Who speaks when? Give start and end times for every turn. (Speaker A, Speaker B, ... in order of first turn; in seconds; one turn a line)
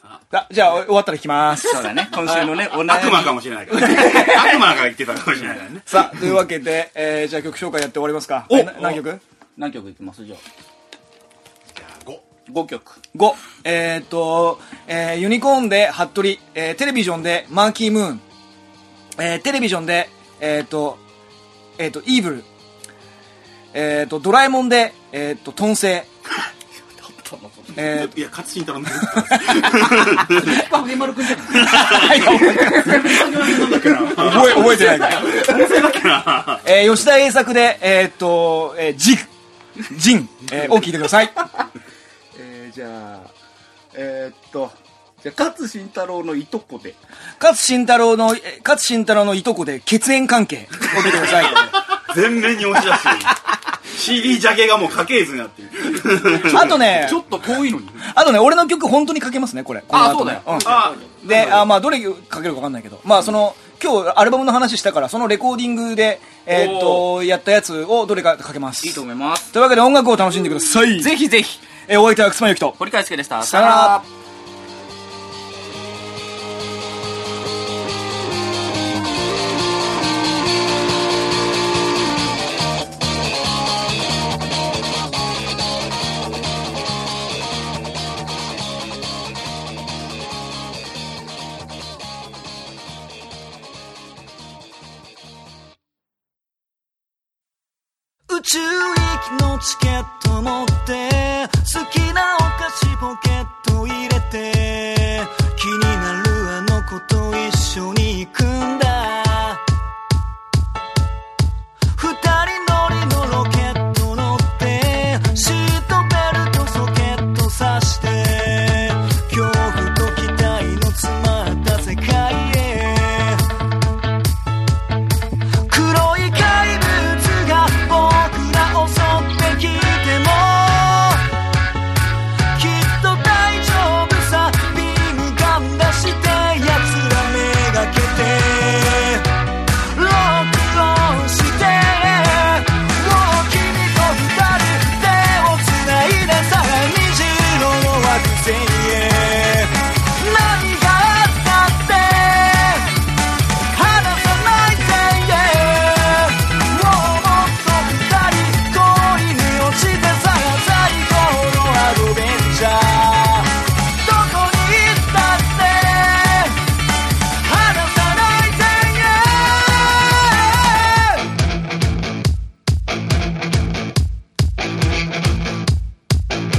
Speaker A: 0.3-2.7
Speaker B: 1.6-4.7
Speaker C: 2.3-6.3
Speaker A: 5.8-9.2
Speaker B: 8.5-9.0
Speaker B: 9.6-10.4
Speaker C: 11.7-12.2
Speaker B: 12.5-13.0
Speaker A: 13.1-18.2
Speaker A: 19.2-21.0
Speaker A: 21.8-22.5
Speaker A: 23.7-26.1
Speaker B: 26.9-27.8
Speaker A: 27.7-28.2
Speaker C: 27.8-30.6
Speaker A: 29.0-30.2
Speaker B: 30.2-36.0
Speaker A: 31.4-35.3
Speaker C: 31.6-36.6
Speaker A: 36.6-41.5
Speaker B: 42.3-43.3
Speaker B: 43.9-47.0
Speaker A: 47.4-51.7
Speaker C: 50.9-56.9
Speaker A: 56.4-57.2
Speaker B: 56.5-58.0
Speaker A: 58.0-71.2
Speaker B: 59.9-60.9
Speaker C: 60.5-61.7
Speaker B: 66.5-67.1
Speaker B: 68.8-69.5
Speaker B: 71.0-71.7
Speaker A: 71.7-72.8
Speaker B: 72.8-74.1
Speaker A: 73.4-74.0
Speaker D: 98.3-109.6
Speaker D: 111.9-123.5
Speaker D: 125.7-131.3
Speaker D: 132.5-153.0
Speaker D: 153.7-166.7
Speaker D: 167.4-171.2